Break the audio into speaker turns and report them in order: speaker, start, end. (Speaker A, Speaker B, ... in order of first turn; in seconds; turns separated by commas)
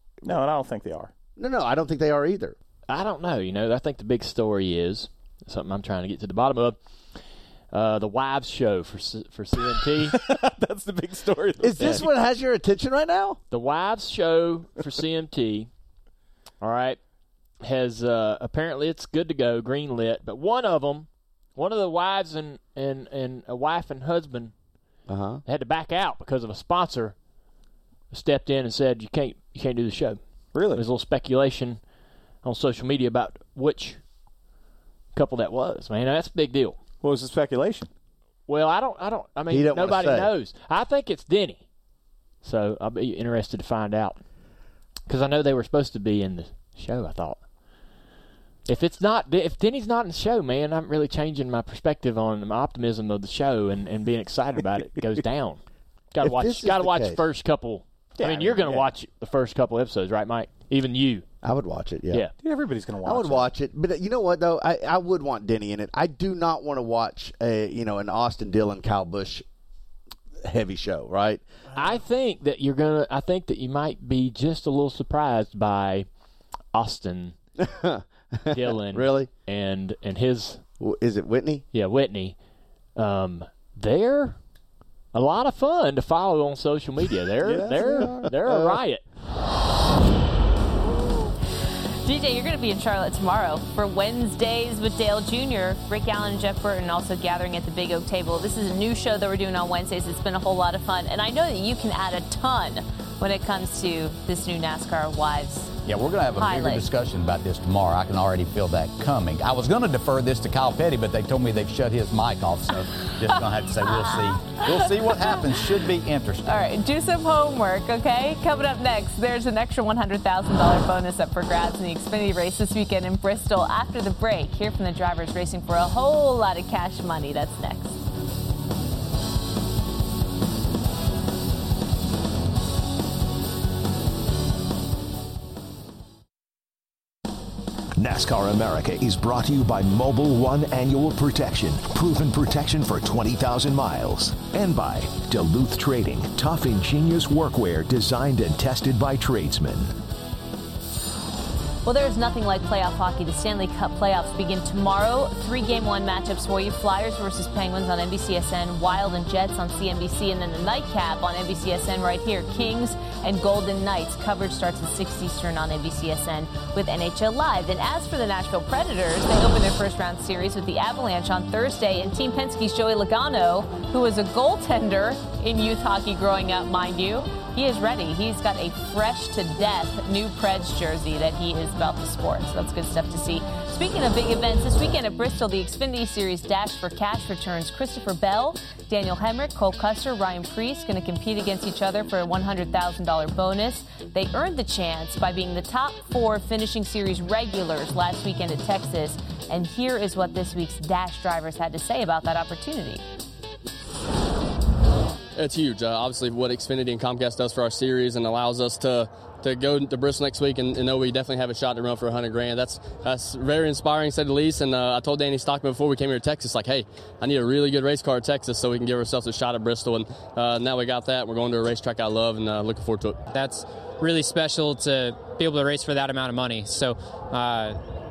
Speaker A: 0.2-1.1, Speaker B: 1.4-2.6, Speaker C: 2.9-10.1, Speaker A: 9.7-12.1, Speaker B: 11.6-13.4, Speaker C: 13.5-15.7, Speaker C: 16.6-17.0, Speaker C: 17.6-27.3, Speaker B: 25.1-25.4, Speaker C: 28.1-34.1, Speaker A: 30.5-30.8, Speaker C: 35.1-36.8, Speaker A: 37.0-37.9, Speaker C: 38.5-41.7, Speaker B: 39.5-40.3, Speaker C: 42.4-44.3, Speaker C: 45.1-47.5, Speaker C: 48.6-61.3, Speaker B: 56.2-57.2, Speaker A: 58.2-58.9, Speaker B: 61.4-62.2, Speaker A: 62.4-63.5, Speaker B: 63.0-69.5, Speaker B: 70.5-71.9, Speaker C: 71.7-77.4, Speaker B: 77.6-79.3, Speaker C: 78.5-80.8, Speaker B: 80.8-81.7, Speaker C: 81.7-82.4, Speaker C: 82.9-84.5, Speaker C: 85.1-89.0, Speaker B: 87.5-88.8, Speaker A: 87.5-88.2, Speaker D: 92.0-105.8, Speaker E: 105.9-116.5, Speaker D: 106.4-106.9, Speaker D: 113.3-115.6, Speaker D: 116.5-128.0, Speaker F: 138.0-149.9, Speaker D: 151.8-203.0, Speaker G: 205.3-223.2, Speaker H: 223.3-227.8